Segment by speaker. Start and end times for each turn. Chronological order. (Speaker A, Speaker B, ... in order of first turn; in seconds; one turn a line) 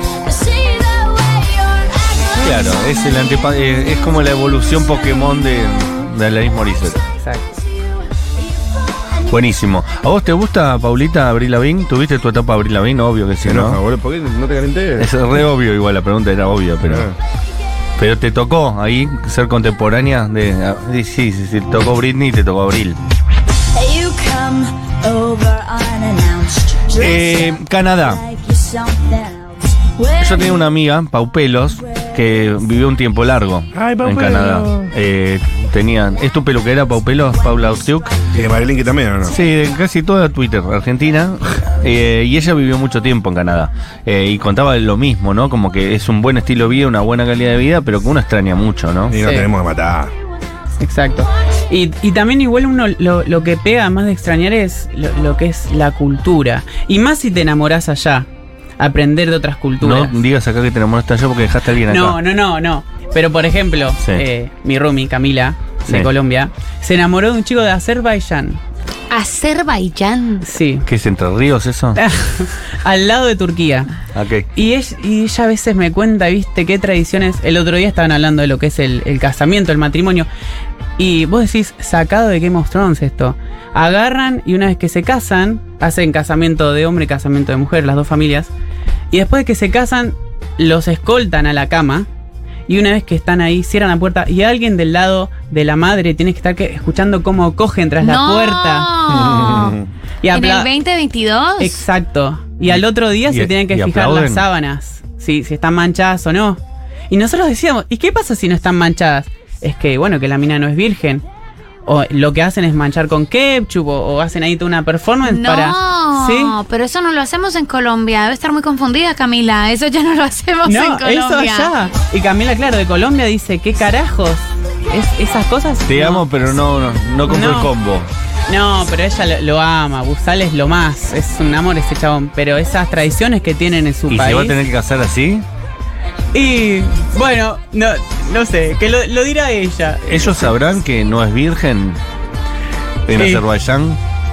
Speaker A: 0.2-3.1
Speaker B: 2.3-7.0
Speaker C: 7.2-7.5
Speaker B: 9.2-13.8
Speaker D: 13.4-15.1
Speaker B: 15.0-17.1
Speaker D: 16.8-17.1
Speaker B: 18.0-23.0
Speaker A: 23.7-30.7
Speaker B: 26.9-28.2
Speaker B: 30.2-38.2
Speaker D: 33.7-34.9
Speaker D: 38.3-39.4
Speaker B: 39.3-49.1
Speaker D: 49.1-50.1
Speaker C: 49.2-49.5
Speaker C: 50.8-58.3
Speaker C: 58.8-60.2
Speaker B: 59.8-62.2
Speaker C: 61.9-68.6
Speaker E: 69.1-70.5
Speaker C: 70.4-70.8
Speaker B: 70.8-72.0
Speaker C: 72.0-73.9
Speaker B: 74.1-74.5
Speaker C: 74.5-80.3
Speaker C: 81.0-88.5
Speaker C: 89.1-92.1
Speaker C: 92.7-98.9
Speaker E: 98.0-99.8
Speaker D: 99.1-99.8
Speaker C: 100.2-100.7
Speaker E: 100.3-101.8
Speaker C: 101.6-111.2
Speaker B: 102.7-104.4
Speaker C: 111.8-116.6
Speaker E: 115.2-121.7
Speaker C: 120.6-126.2
Speaker B: 125.9-128.1
Speaker C: 127.2-127.7
Speaker C: 128.5-134.6
Speaker B: 134.1-135.4
Speaker C: 136.3-140.5
Speaker B: 140.1-142.0
Speaker B: 143.1-144.0
Speaker C: 143.1-143.4